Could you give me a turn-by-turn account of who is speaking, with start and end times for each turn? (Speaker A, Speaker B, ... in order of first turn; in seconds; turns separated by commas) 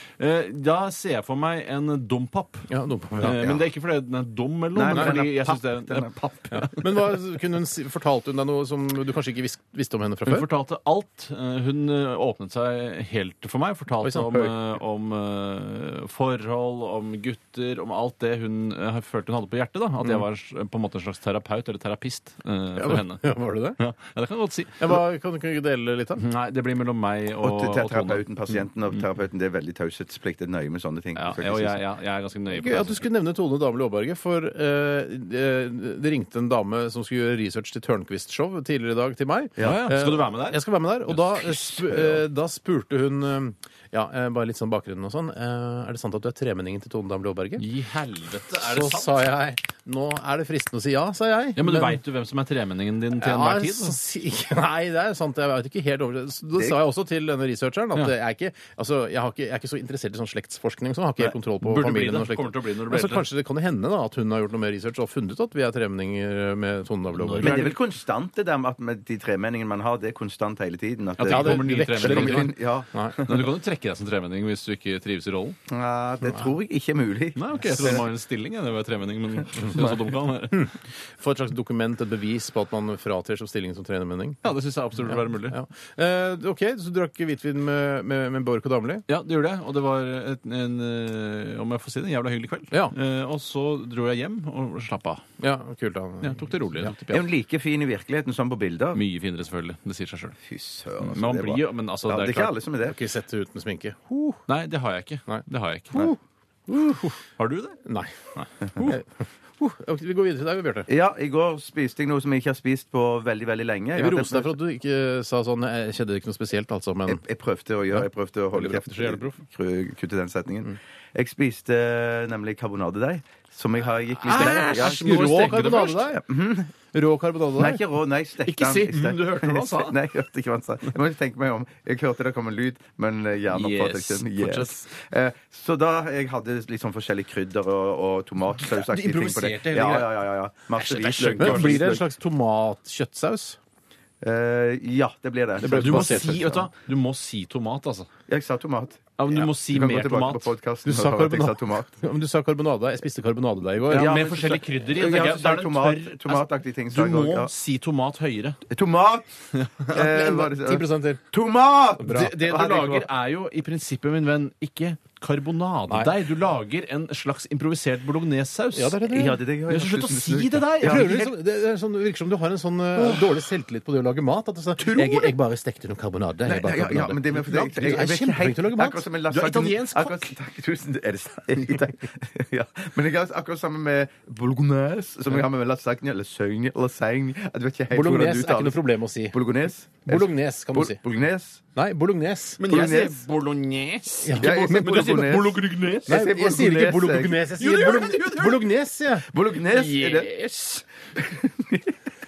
Speaker A: 0.2-2.7, Speaker B: 2.7-3.5, Speaker A: 3.2-6.8, Speaker C: 3.4-3.6, Speaker C: 4.7-6.6, Speaker B: 6.5-10.5, Speaker A: 10.3-25.0, Speaker B: 14.0-14.5, Speaker B: 22.8-23.8, Speaker B: 24.8-26.2, Speaker A: 26.2-28.2, Speaker C: 27.4-31.8, Speaker A: 31.1-33.0, Speaker B: 32.5-47.6, Speaker C: 39.6-39.9, Speaker A: 39.6-42.1, Speaker A: 47.6-49.3, Speaker B: 48.5-52.0, Speaker A: 51.6-54.0, Speaker B: 53.2-67.7, Speaker A: 61.2-63.3, Speaker A: 67.2-67.8, Speaker C: 67.4-73.5, Speaker A: 71.2-72.5, Speaker B: 71.2-73.2, Speaker A: 73.2-75.6, Speaker C: 75.7-78.0, Speaker A: 77.4-80.7, Speaker B: 80.5-84.4, Speaker A: 84.4-85.6, Speaker B: 85.1-89.0, Speaker A: 89.1-95.2, Speaker B: 95.4-97.2, Speaker A: 96.2-96.9, Speaker C: 97.1-99.0, Speaker A: 99.0-100.4, Speaker C: 100.5-103.0, Speaker A: 101.0-102.5, Speaker B: 102.9-104.4, Speaker A: 104.5-106.1, Speaker B: 105.3-106.2, Speaker B: 106.7-107.2, Speaker A: 107.4-107.8, Speaker B: 107.8-108.2, Speaker A: 108.3-109.0, Speaker B: 108.8-110.9, Speaker C: 110.9-114.5, Speaker B: 114.0-117.2, Speaker C: 117.1-126.7, Speaker B: 117.9-119.4, Speaker B: 124.2-126.2, Speaker A: 124.2-126.1, Speaker B: 126.9-127.8, Speaker C: 127.6-142.0, Speaker A: 128.5-130.0, Speaker A: 133.5-134.9, Speaker A: 138.8-140.1, Speaker A: 140.8-142.0, Speaker B: 141.4-143.6, Speaker C: 144.2-146.7, Speaker B: 145.6-146.4, Speaker A: 145.7-148.1, Speaker C: 148.3-152.0, Speaker A: 149.2-150.5, Speaker B: 150.8-154.2, Speaker A: 153.9-158.6, Speaker C: 153.9-157.5, Speaker C: 158.7-159.3, Speaker A: 159.6-159.9, Speaker C: 159.8-163.1, Speaker B: 159.9-161.3, Speaker B: 162.0-162.3, Speaker A: 162.1-169.2, Speaker B: 168.7-169.4, Speaker C: 169.1-171.3, Speaker A: 169.7-171.3, Speaker B: 170.8-179.1, Speaker C: 173.0-173.3, Speaker C: 174.8-175.3, Speaker C: 176.5-191.6, Speaker A: 179.3-180.3, Speaker B: 187.9-189.4, Speaker B: 190.1-191.0, Speaker B: 191.8-192.6, Speaker A: 192.6-196.2, Speaker C: 192.6-193.2, Speaker B: 194.2-195.2, Speaker C: 194.3-197.5, Speaker B: 196.1-199.3, Speaker A: 197.6-198.7, Speaker C: 199.3-200.3, Speaker A: 199.6-200.8, Speaker C: 201.2-202.0